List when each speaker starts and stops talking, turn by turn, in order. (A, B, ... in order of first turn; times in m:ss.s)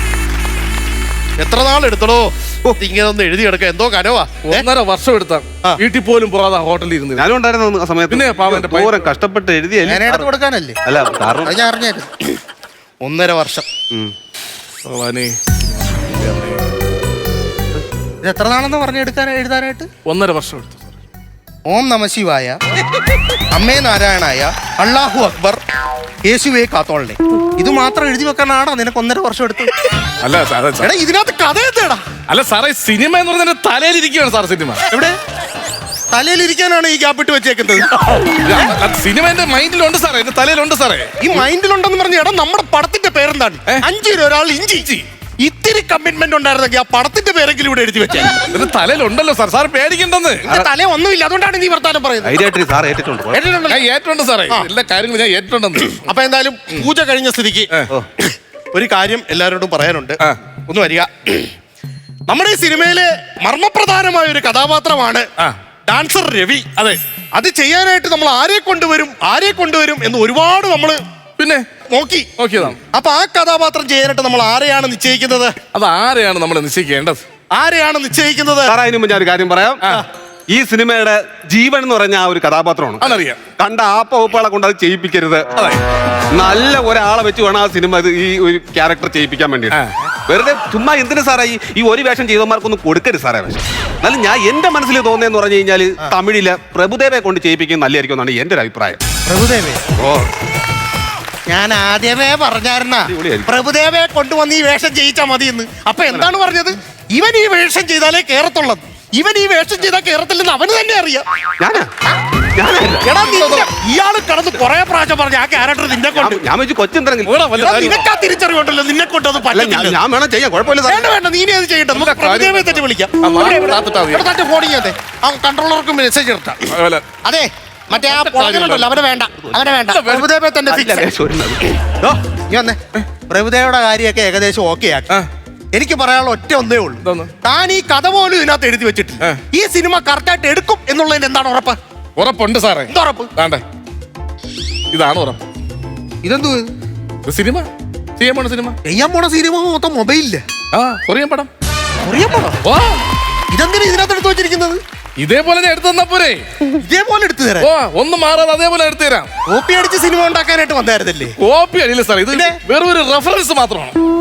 0:01.4-0:04.6 A
0:04.4-0:07.3 B
0:07.2-0:10.3 C
0:08.1-0:09.1 B
0:09.9-0:10.8 A
0:10.8-0:11.5 C
0:11.4-0:12.4 A
0:13.0-0:13.6 A
0:14.8-0:15.4 B
0:15.9-0:16.6 B
0:18.2-0:19.9 A
0:20.0-0:20.9 B
0:21.7-0:22.6 A
0:23.5-0:25.6 A
0:26.2-0:29.7 A
0:30.2-0:30.9 B
0:30.8-0:32.0 A
0:32.3-0:34.8 B
0:34.9-0:35.2 A
0:36.1-0:38.4 A
0:38.4-0:41.1 B
0:41.2-0:44.9 A
0:45.4-0:48.6 A
0:48.5-0:50.6 B
0:50.5-0:52.4 A
0:52.2-0:53.4 C
0:53.3-0:53.9 A
0:53.7-0:56.0 B
0:55.9-1:01.5 A
1:02.3-1:05.3 A
1:05.9-1:06.7 A
1:07.4-1:11.0 A
1:11.4-1:11.6 B
1:11.9-1:12.3 A
1:12.4-1:12.8 B
1:12.9-1:15.6 A
1:15.7-1:17.2 B
1:17.5-1:18.8 A
1:18.6-1:19.8 C
1:20.5-1:25.5 C
1:23.0-1:23.4 B
1:26.3-1:39.0 C
1:39.2-1:39.8 A
1:40.0-1:40.3 C
1:41.5-1:51.2 A
1:43.0-1:43.6 C
1:51.6-1:51.9 C
1:52.5-1:53.1 C
1:53.0-1:56.4 A
1:53.1-1:53.7 B
1:56.1-1:57.4 C
1:57.2-1:58.0 B
1:57.6-2:00.0 A
1:59.5-2:01.1 C
2:00.9-2:11.1 A
2:01.9-2:04.2 B
2:06.7-2:07.0 B
2:08.1-2:09.0 B
2:09.9-2:10.3 B
2:10.7-2:11.6 C
2:11.9-2:15.2 A
2:15.7-2:21.8 A
2:17.0-2:17.3 B
2:22.2-2:23.6 B
2:22.9-2:23.3 A
2:24.9-2:25.4 B
2:26.2-2:26.7 A
2:27.2-2:28.8 B
2:28.8-2:30.4 A
2:30.7-2:31.5 B
2:32.0-2:32.6 A
2:32.6-2:33.0 B
2:33.5-2:34.8 A
2:35.2-2:36.5 B
2:36.7-2:37.7 A
2:37.6-2:39.3 B
2:39.5-2:41.4 A
2:41.4-2:44.0 B
2:42.3-2:42.6 A